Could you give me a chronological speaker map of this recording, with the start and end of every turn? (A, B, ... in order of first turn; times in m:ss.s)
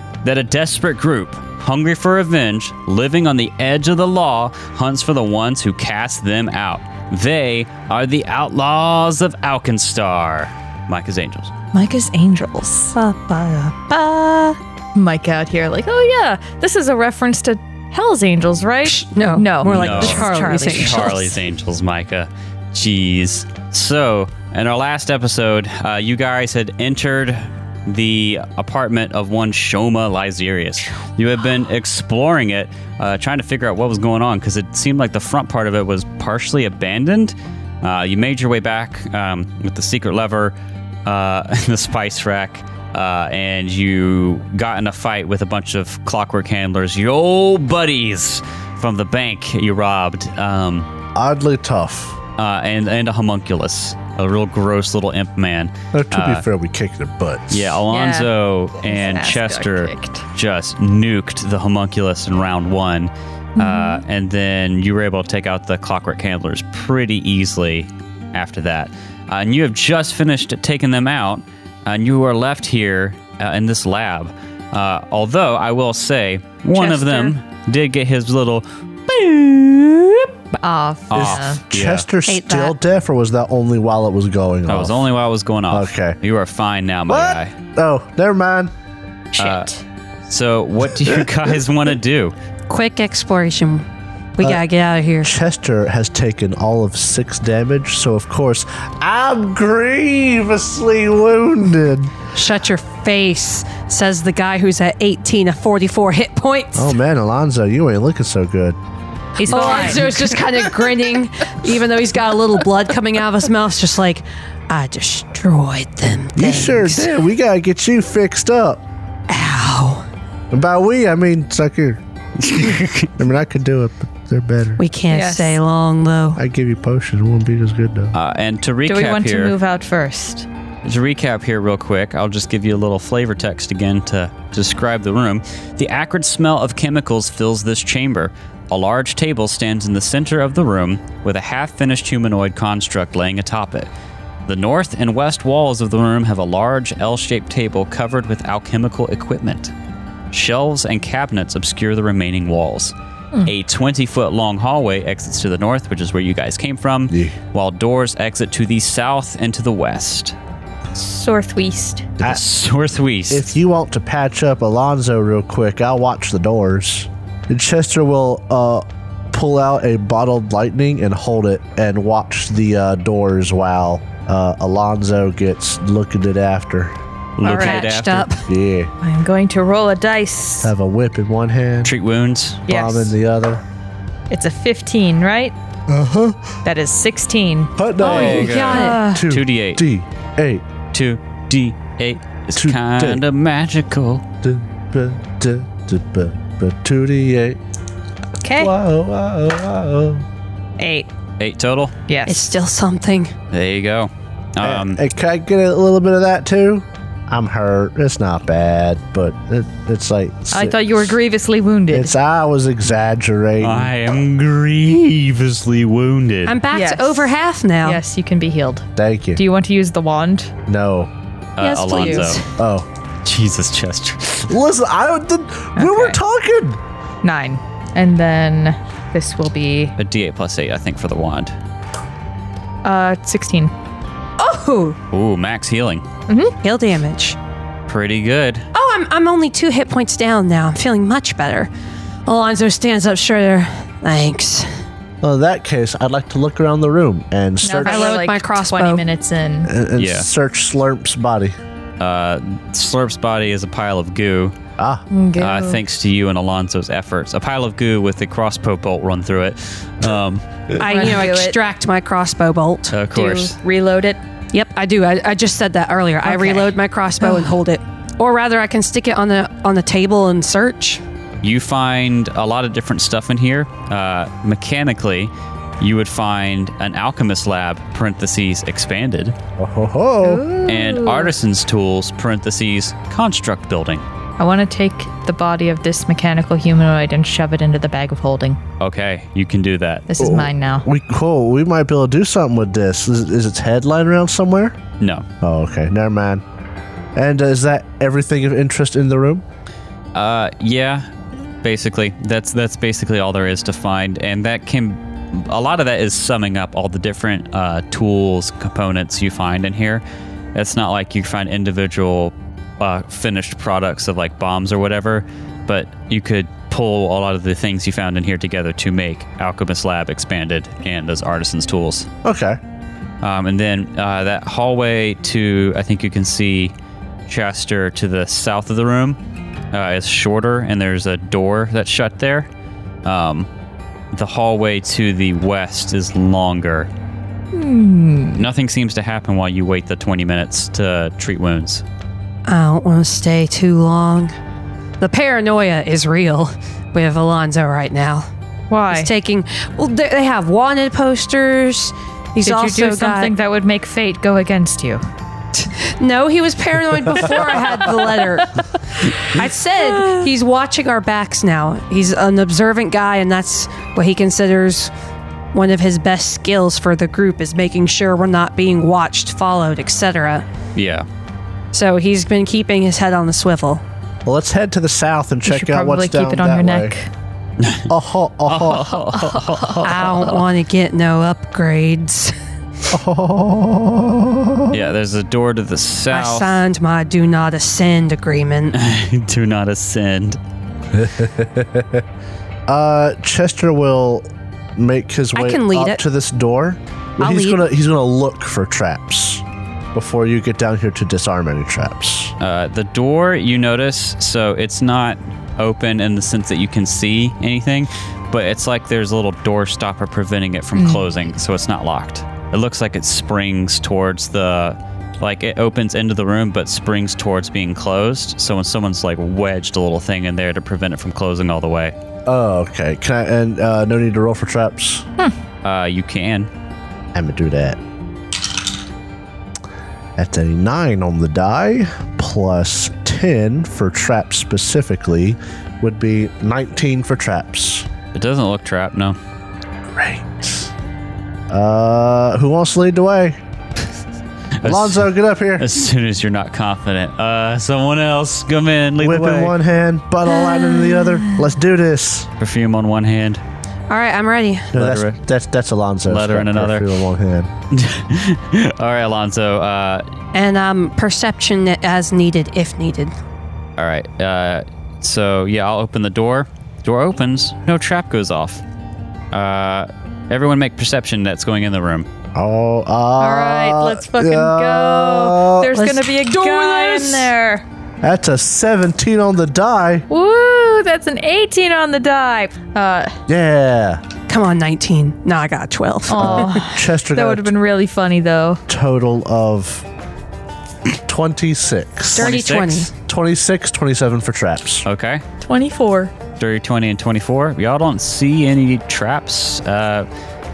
0:00.2-0:11.5 A
0:11.7-0:21.4 B
0:18.8-0:21.2 C
0:19.6-0:50.9 A
0:51.1-0:52.2 D
0:52.4-0:56.4 A
0:55.9-0:57.8 D
0:57.5-1:20.6 A
0:57.9-0:58.3 B
0:58.8-1:00.2 B
1:03.6-1:04.0 B
1:16.7-1:17.3 B
1:20.6-1:21.6 B
1:21.1-1:22.1 A
1:21.1-1:25.1 D
1:22.2-1:22.8 C
1:24.7-1:27.5 A
1:25.7-1:26.2 D
1:27.1-1:28.7 D
1:29.4-1:29.7 A
1:29.4-1:29.8 B
1:30.3-1:32.3 A
1:32.7-1:33.8 C
1:34.4-1:35.4 C
1:35.2-1:42.1 D
1:42.3-1:46.9 C
1:46.8-1:48.8 D
1:49.4-1:57.1 C
1:49.5-1:50.3 B
1:56.4-1:58.8 D
1:59.3-2:00.0 C
2:00.5-2:02.0 D
2:02.4-2:03.2 A
2:03.2-2:04.8 D
2:04.8-2:06.4 C
2:05.1-2:05.6 B
2:06.4-2:08.1 D
2:08.1-2:09.5 A
2:08.9-2:10.5 B
2:10.8-2:23.9 A
2:24.5-2:29.7 A
2:30.3-2:40.3 A
2:37.1-2:37.4 D
2:40.9-2:42.1 B
2:42.2-2:43.5 A
2:43.3-2:56.9 D
2:57.4-2:58.3 A
2:57.4-2:58.4 C
2:58.4-2:58.9 D
2:59.0-3:00.7 B
3:00.6-3:01.9 D
3:01.8-3:02.6 A
3:02.7-3:03.1 B
3:02.7-3:03.6 D
3:04.3-3:05.5 B
3:05.9-3:06.6 D
3:06.6-3:09.3 B
3:07.8-3:10.6 D
3:08.0-3:09.0 C
3:08.0-3:09.8 A
3:10.9-3:14.2 A
3:12.5-3:13.2 D
3:14.4-3:17.6 D
3:18.4-3:18.7 B
3:18.6-3:20.2 D
3:20.8-3:21.1 B
3:21.4-3:21.9 A
3:22.1-3:22.4 B
3:22.3-3:23.3 C
3:23.5-3:25.0 A
3:24.6-3:30.8 D
3:30.5-3:32.1 B
3:31.9-3:33.9 D
3:33.6-3:36.6 A
3:36.5-3:38.0 C
3:36.7-3:37.3 B
3:37.8-3:40.5 B
3:39.0-3:39.4 D
3:40.7-3:41.1 D
3:41.6-3:42.4 A
3:41.6-3:42.4 B
3:41.6-3:42.4 C
3:42.5-3:42.8 D
3:43.2-3:44.5 A
3:44.5-3:46.8 D
3:45.8-3:46.2 B
3:47.2-3:49.9 B
3:50.0-3:51.5 A
3:52.8-3:53.7 B
3:54.4-3:55.0 C
3:55.1-3:56.0 A
3:56.3-3:56.5 B
3:56.6-3:57.4 C
3:57.9-3:58.6 A
3:58.7-4:01.7 C
4:02.2-4:04.7 C
4:05.2-4:08.2 D
4:07.6-4:09.7 B
4:07.8-4:09.0 C
4:09.6-4:11.6 D
4:10.0-4:10.3 A
4:12.0-4:14.5 A
4:14.8-4:15.0 D
4:15.1-4:15.8 B
4:15.4-4:20.4 A
4:20.8-4:23.0 C
4:20.8-4:21.6 B
4:22.9-4:23.6 A
4:23.1-4:24.2 B
4:24.5-4:31.0 C
4:26.2-4:27.5 B
4:31.4-4:39.4 A
4:39.6-4:40.6 D
4:40.2-4:41.3 B
4:40.6-4:44.0 A
4:44.4-4:48.6 B
4:48.8-4:50.1 A
4:50.1-4:50.8 B
4:50.2-4:54.8 D
4:55.0-4:55.2 A
4:55.4-4:56.4 D
4:57.1-4:59.4 D
5:00.1-5:01.1 A
5:01.6-5:10.0 A
5:10.5-5:22.1 A
5:22.2-5:22.6 D
5:23.2-5:26.7 A
5:27.3-5:29.2 A
5:29.7-5:32.5 A
5:33.0-5:33.5 A
5:34.1-5:36.9 A
5:37.5-5:38.4 B
5:38.3-5:41.8 A
5:42.4-5:44.3 C
5:45.0-5:48.2 C
5:48.7-5:49.1 B
5:48.9-5:53.3 C
5:52.4-5:55.0 B
5:55.6-5:58.6 C
5:59.1-6:04.9 C
5:59.9-6:00.2 B
6:05.5-6:10.4 C
6:10.7-6:11.0 A
6:11.7-6:13.8 C
6:14.2-6:16.9 D
6:15.4-6:17.1 B
6:17.6-6:17.9 A
6:17.9-6:19.7 D
6:18.4-6:20.0 A
6:19.8-6:22.3 C
6:22.9-6:24.8 D
6:24.7-6:26.6 A
6:26.1-6:28.8 C
6:28.7-6:30.4 A
6:30.9-6:32.0 D
6:32.7-6:39.4 D
6:35.3-6:36.0 C
6:37.2-6:37.6 C
6:39.9-6:42.3 D
6:42.4-7:01.9 A
6:50.7-6:51.1 B
7:02.2-7:05.0 D
7:05.6-7:06.5 A
7:07.1-7:07.8 D
7:10.2-7:17.9 D
7:18.1-7:19.2 A
7:19.9-7:20.7 D
7:21.5-7:23.4 D
7:24.6-7:29.5 A
7:24.6-7:25.7 D
7:29.0-7:32.3 D
7:30.4-7:31.0 B
7:32.4-7:33.4 A
7:33.9-7:34.8 C
7:34.7-7:37.5 D
7:34.7-7:35.2 A
7:36.1-7:36.9 A
7:37.7-7:40.0 A
7:40.3-7:43.1 C
7:43.8-7:48.6 A
7:49.3-7:52.1 A
7:52.3-7:55.8 D
7:53.2-7:57.6 B
7:55.7-7:57.3 C
7:58.0-8:00.0 D
8:00.1-8:03.2 B
8:03.3-8:04.0 D
8:04.3-8:06.6 C
8:06.1-8:08.6 B
8:06.1-8:07.5 D
8:08.7-8:09.8 D
8:11.1-8:12.3 D
8:12.1-8:12.9 C
8:12.2-8:12.9 A
8:13.1-8:14.8 D
8:14.8-8:15.2 A
8:15.4-8:16.1 B
8:16.4-8:20.1 A